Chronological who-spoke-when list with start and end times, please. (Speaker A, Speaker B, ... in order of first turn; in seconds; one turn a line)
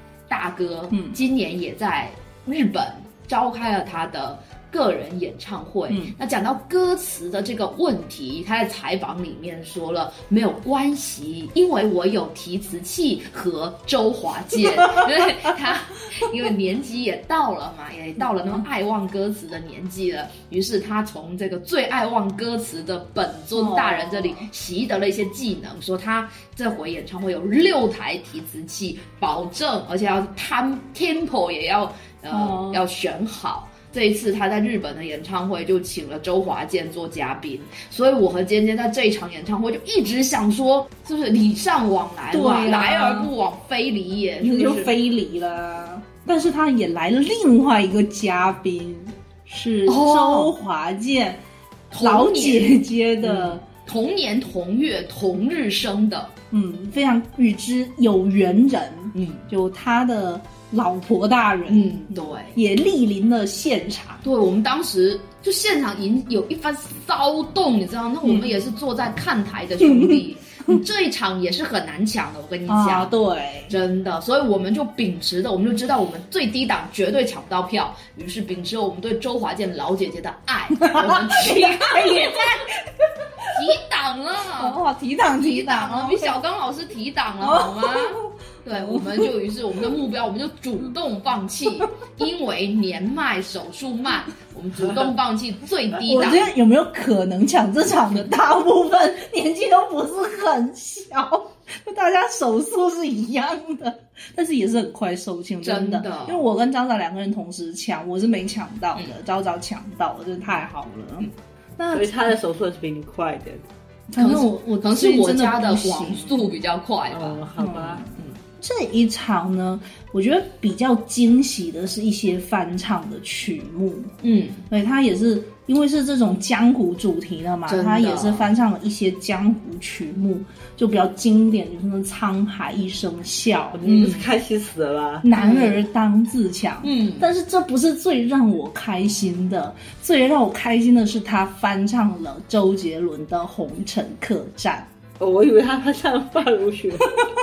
Speaker A: 0.3-44.9
Speaker B: 0.9-1.2
Speaker B: 5.9-6.1
Speaker B: 23.5-24.5
Speaker B: 32.3-32.8
Speaker B: 42.3-43.3
Speaker B: 44.4-51.4
Speaker A: 49.9-50.5
Speaker A: 51.9-56.3
Speaker B: 52.0-53.6
Speaker B: 56.5-64.2
Speaker A: 59.1-59.5
Speaker A: 61.7-62.6
Speaker A: 64.2-73.1
Speaker B: 68.2-68.5
Speaker B: 69.8-70.8
Speaker B: 72.7-73.7
Speaker A: 73.7-82.6
Speaker B: 80.8-83.6
Speaker A: 83.5-84.8
Speaker B: 84.5-86.3
Speaker A: 85.3-96.5
Speaker B: 87.4-88.2
Speaker B: 88.8-89.3
Speaker B: 96.0-112.2
Speaker A: 105.6-106.5
Speaker C: 111.9-113.6
Speaker B: 114.1-116.4
Speaker A: 114.2-117.4
Speaker C: 117.1-118.0
Speaker B: 117.6-118.1
Speaker B: 118.6-124.2
Speaker A: 124.2-124.6
Speaker B: 124.7-133.8
Speaker A: 127.7-128.5
Speaker C: 133.7-135.3
Speaker A: 133.8-134.3
Speaker B: 135.2-144.9
Speaker A: 135.3-135.8
Speaker A: 136.8-137.3
Speaker C: 145.2-147.2